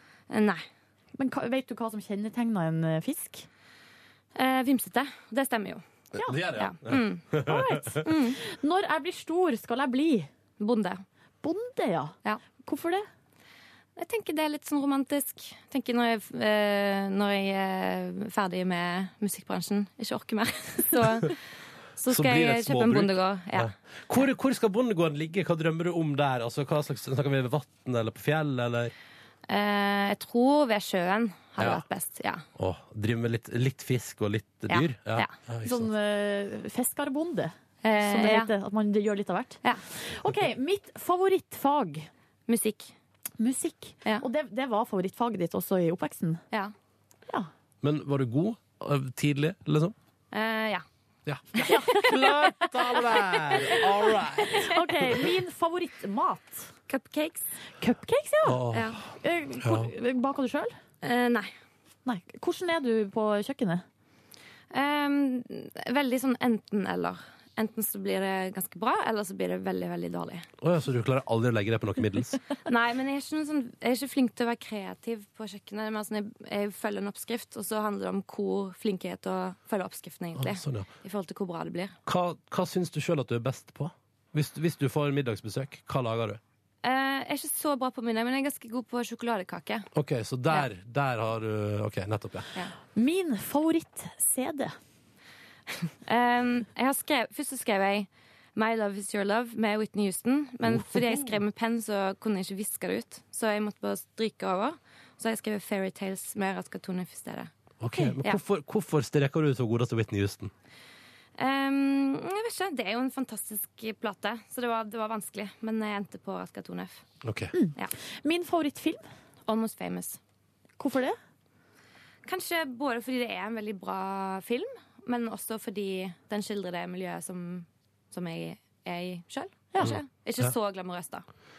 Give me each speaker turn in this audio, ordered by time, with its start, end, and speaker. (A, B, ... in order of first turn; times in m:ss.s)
0:00.3-0:00.6 A
0:01.2-0:03.5 B
0:04.3-0:05.8 A
0:06.2-0:06.4 B
0:06.2-0:08.0 C
0:06.5-0:07.4 A
0:07.4-0:10.3 B
0:08.0-0:08.4 A
0:10.6-0:11.0 A
0:11.4-0:13.1 B
0:14.0-0:21.4 A
0:22.0-0:23.7 A
0:22.1-0:28.9 C
0:29.5-0:32.4 A
0:31.6-0:31.8 C
0:32.6-0:35.9 C
0:34.7-0:35.3 A
0:35.6-0:42.1 B
0:37.8-0:38.5 A
0:42.5-0:42.9 A
0:43.4-0:46.4 B
0:47.8-0:49.9 C
0:50.3-0:50.8 A
0:51.2-0:54.7 C
0:51.6-0:53.8 B
0:54.4-0:56.7 B
0:56.9-0:57.5 A
0:57.8-0:58.6 B
0:58.4-0:59.0 C
0:58.7-0:59.0 A
0:59.2-1:00.7 B
0:59.6-0:59.9 C
1:01.0-1:01.5 A
1:02.0-1:03.8 B
1:04.7-1:10.5 A
1:10.6-1:12.4 C
1:12.6-1:22.0 A
1:20.4-1:20.9 C
1:22.0-1:26.4 C
1:26.8-1:29.9 A
1:29.9-1:32.5 C
1:32.9-1:34.8 B
1:36.0-1:47.5 A
1:40.6-1:41.3 C
1:47.8-1:50.5 C
1:51.4-1:57.0 A
1:57.2-1:57.5 C
1:57.5-1:59.0 B
1:59.5-2:00.2 A
2:00.8-2:01.2 B
2:02.2-2:11.2 A
2:09.8-2:10.5 C